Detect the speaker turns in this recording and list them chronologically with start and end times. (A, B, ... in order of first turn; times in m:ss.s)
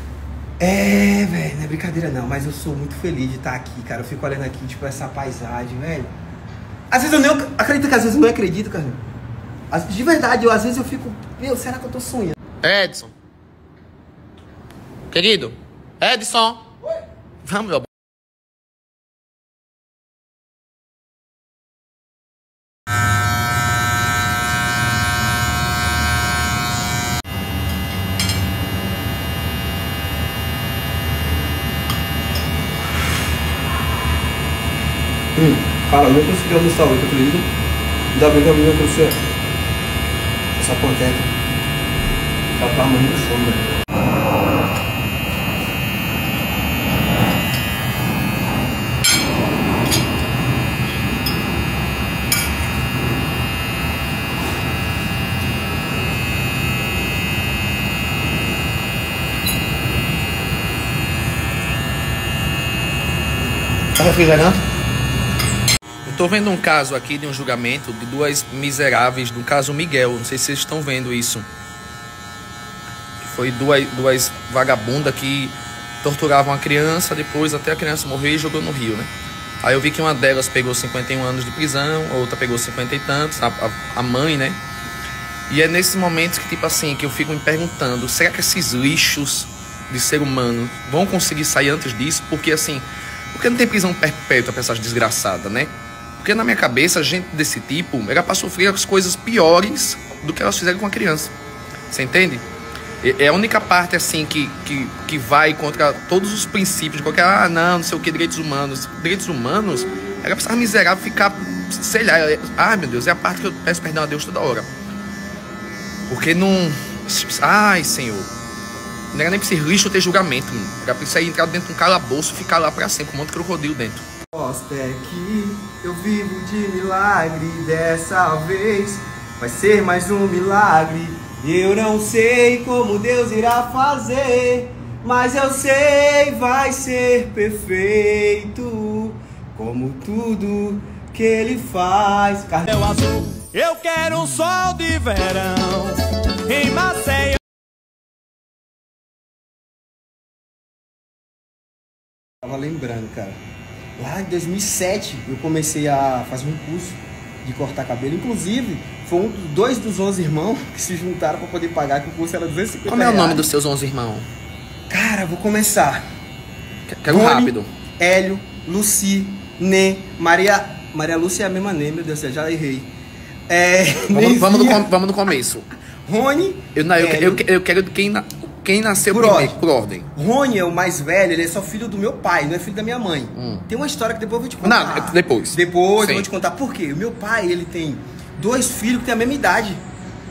0:00.6-0:06.1 A
0:06.9-0:09.0 A
0:09.7-0:12.4 A
0:12.6-0:13.1 B
0:15.1-0:16.7 B
0:17.4-0:17.9 B
0:35.4-0:37.5 A
0:38.1-0:39.2 A
0:40.6-0:41.3 A
0:42.5-0:43.7 A
1:04.0-1:04.6 B
1:06.0-1:11.4 B
1:13.2-1:19.1 B
1:19.6-1:24.6 B
1:25.5-1:41.3 B
1:41.9-1:42.4 B
1:43.0-1:54.7 B
1:56.1-1:58.3 B
1:59.1-2:04.0 B
2:04.3-2:22.8 A
2:22.7-2:27.4 C
2:32.4-2:33.4 A
2:34.0-2:43.4 A
2:42.8-2:44.3 B
2:44.9-2:46.0 A
2:46.9-2:47.7 B
2:47.1-2:52.9 A
2:53.5-2:54.9 A
2:54.1-2:55.7 B
2:56.0-2:57.4 A
2:56.7-3:00.1 B
2:59.1-2:59.6 A
3:00.1-3:09.8 A
3:03.3-3:03.6 B
3:04.6-3:06.3 B